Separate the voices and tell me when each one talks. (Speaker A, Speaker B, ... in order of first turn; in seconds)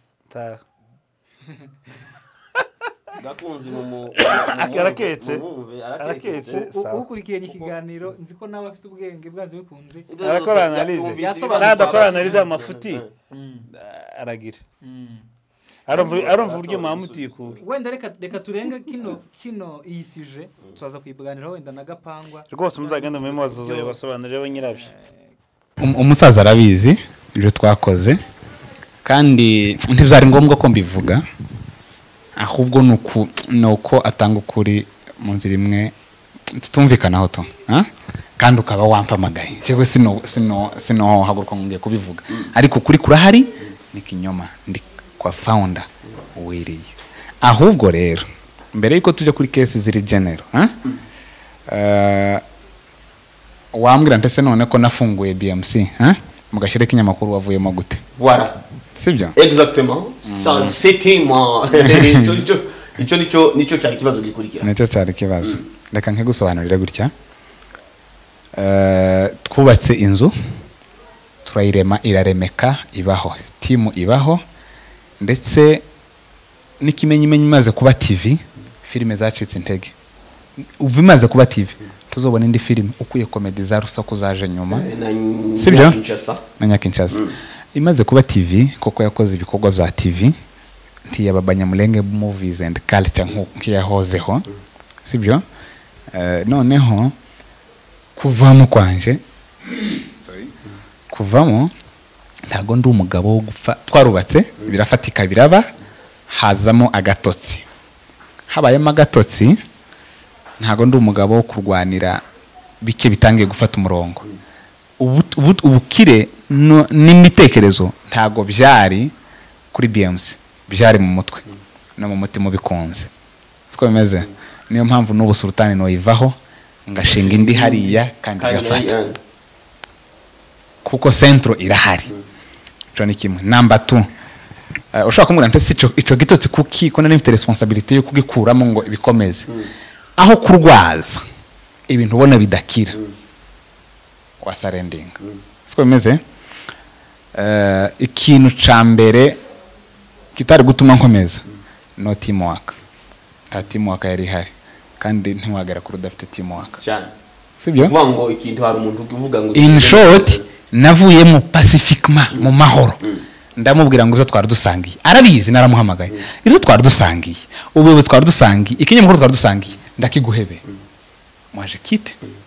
Speaker A: 0.3-0.6, 4.2-5.4, 6.0-7.1, 10.2-13.0, 13.7-14.6, 15.8-17.6, 22.5-24.9
Speaker B: 3.2-6.6, 10.1-13.1, 15.9-17.6, 58.2-58.6, 59.4-64.7, 84.7-86.4, 127.0-129.2, 156.8-157.1, 157.8-160.4
Speaker C: 6.5-10.1, 11.2-12.5, 13.3-13.7, 14.8-15.3, 17.6-24.0, 24.7-25.1
Speaker D: 25.8-28.2, 29.0-31.2, 32.4-35.9, 36.5-37.9, 38.4-46.9, 47.4-50.7, 51.7-52.4, 53.7-58.0, 59.0-59.3, 60.2-60.8, 61.8-62.4, 64.6-67.1, 68.5-70.3, 71.4-74.4, 75.2-75.8, 76.8-79.9, 80.8-84.9, 85.6-86.0, 86.6-87.2, 87.7-90.3, 91.1-94.5, 95.0-95.4, 96.1-97.1, 98.2-100.5, 101.1-101.7, 102.5-105.6, 106.3-107.6, 108.5-109.6, 110.6-112.2, 112.8-114.2, 115.0-119.1, 119.7-121.4, 122.0-123.1, 123.7-126.3, 126.9-128.9, 130.8-132.1, 132.9-134.0, 134.9-139.5, 140.2-141.2, 141.9-143.0, 144.4-146.2, 147.3-149.4, 150.3-151.4, 152.0-152.7, 153.5-156.8, 157.6-157.9, 159.5-163.0, 163.6-170.6, 171.5-172.2